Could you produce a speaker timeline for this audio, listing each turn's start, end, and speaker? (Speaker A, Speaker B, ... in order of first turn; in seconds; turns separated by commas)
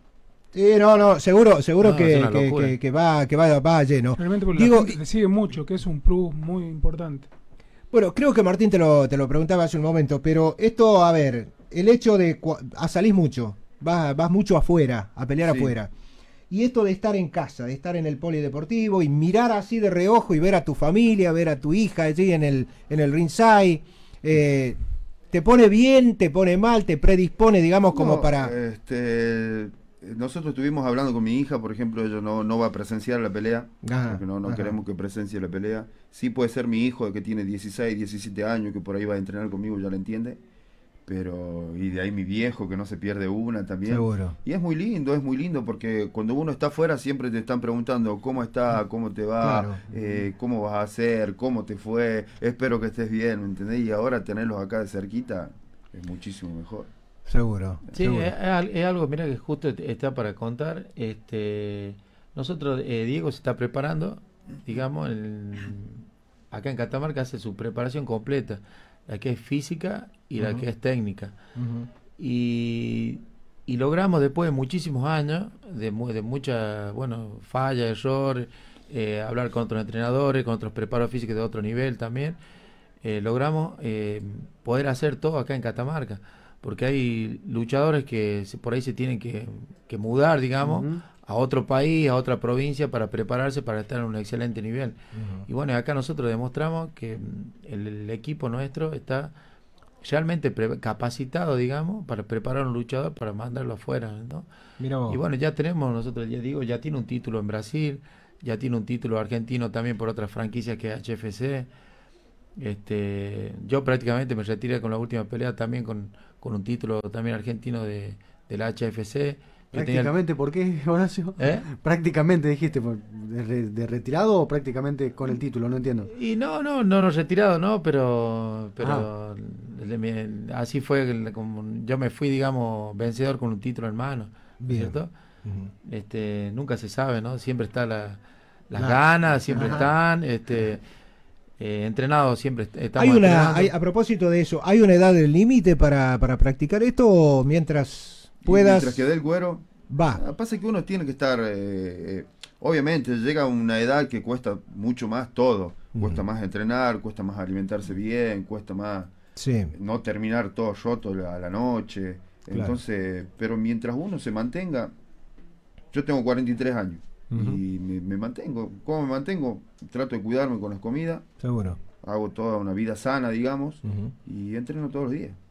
Speaker A: 0.5-5.0, Speaker B: 1.8-2.8, Speaker C: 4.1-7.3, Speaker A: 7.9-15.9, Speaker D: 15.4-15.8, Speaker A: 16.5-24.8, Speaker A: 25.3-28.5, Speaker D: 27.9-40.4, Speaker A: 33.8-34.8, Speaker D: 41.1-56.9, Speaker A: 43.9-44.3, Speaker A: 49.4-49.8, Speaker A: 57.3-58.3, Speaker B: 57.9-71.3, Speaker A: 70.4-70.6, Speaker A: 71.5-71.9, Speaker B: 72.2-82.4, Speaker B: 83.0-94.9, Speaker A: 95.1-95.5, Speaker B: 95.5-99.3, Speaker B: 100.0-104.5, Speaker A: 104.8-105.2, Speaker B: 105.1-111.7, Speaker B: 112.6-120.1, Speaker E: 119.8-125.8, Speaker B: 121.4-121.7, Speaker B: 126.0-135.1, Speaker A: 134.6-135.7, Speaker B: 135.8-138.2, Speaker B: 138.7-140.8, Speaker A: 139.5-139.9, Speaker B: 141.6-143.7, Speaker A: 142.9-149.1, Speaker D: 148.4-159.1, Speaker A: 149.9-150.2, Speaker A: 155.9-156.2, Speaker A: 159.3-159.7, Speaker D: 159.7-164.9, Speaker A: 162.5-162.8, Speaker D: 165.9-171.2, Speaker A: 167.3-167.6, Speaker A: 171.4-171.8, Speaker D: 172.0-175.4, Speaker A: 173.8-174.1